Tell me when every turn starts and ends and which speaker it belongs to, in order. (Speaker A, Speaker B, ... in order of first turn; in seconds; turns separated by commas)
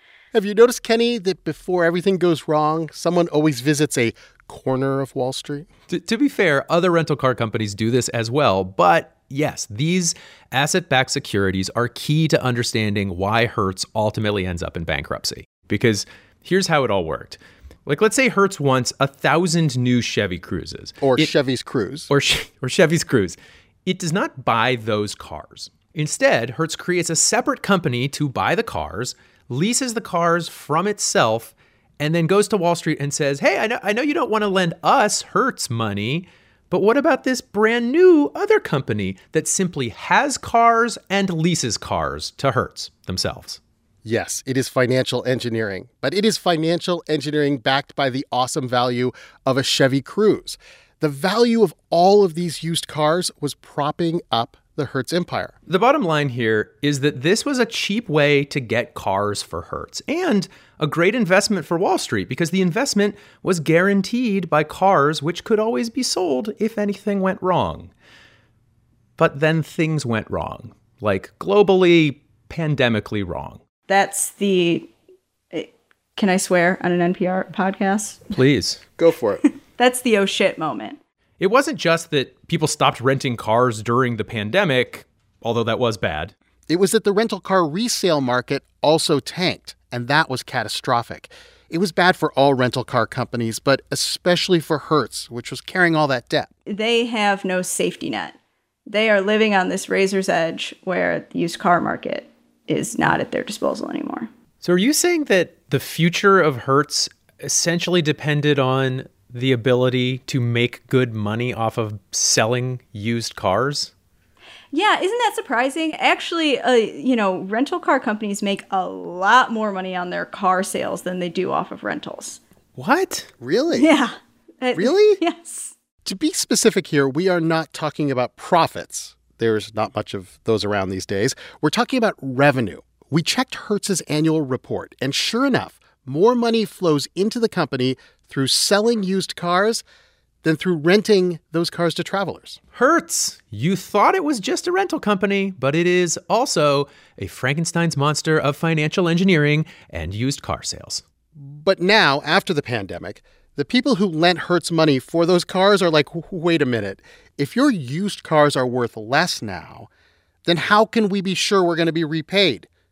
Speaker A: 0.3-5.7, Speaker B: 5.9-21.3, Speaker A: 21.0-22.1, Speaker B: 22.1-43.6, Speaker A: 44.0-55.5, Speaker B: 55.7-67.9, Speaker B: 69.2-73.6, Speaker C: 73.9-74.9, Speaker C: 75.5-78.4, Speaker B: 78.3-78.8, Speaker A: 79.0-79.5, Speaker C: 79.8-81.0, Speaker B: 81.4-86.3, Speaker A: 86.7-96.5, Speaker C: 96.7-98.4, Speaker C: 98.9-104.3, Speaker B: 104.6-113.9, Speaker C: 114.7-122.4, Speaker B: 122.8-123.3, Speaker A: 123.4-123.9, Speaker C: 123.7-125.7, Speaker A: 124.8-125.2, Speaker A: 126.0-139.8, Speaker A: 140.4-142.6, Speaker B: 142.7-151.0, Speaker A: 151.3-159.9, Speaker A: 160.4-162.7